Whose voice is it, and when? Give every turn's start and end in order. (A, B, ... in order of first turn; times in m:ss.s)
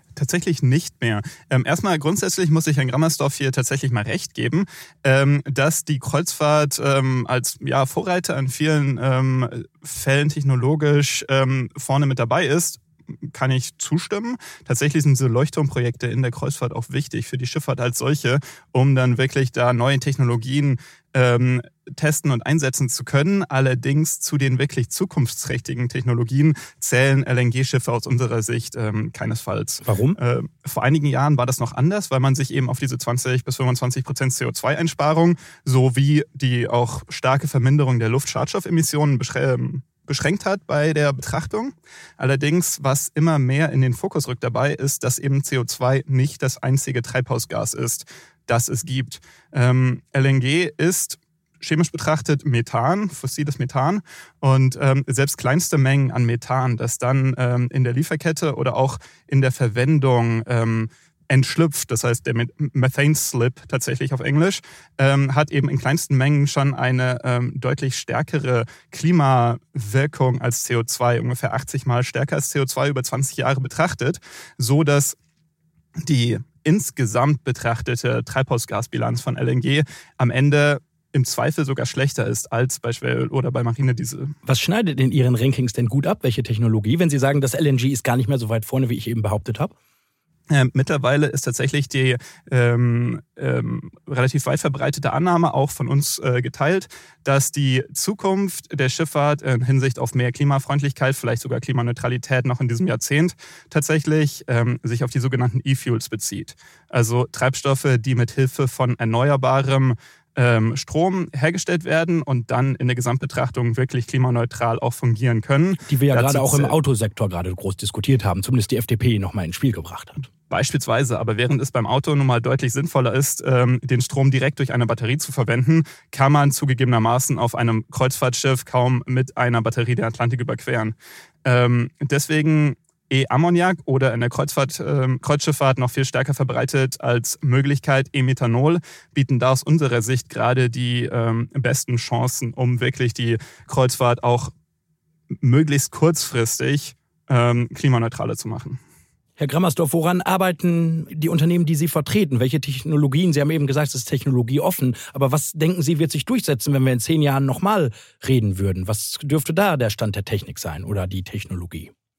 0:00.2-1:15.2 A
0:29.8-0:30.2 B
1:16.0-1:24.4 A
1:24.5-1:29.7 B
1:30.5-1:56.8 A
1:55.9-2:00.3 B
2:00.5-2:24.5 A
2:25.4-2:28.8 A
2:29.4-2:41.9 B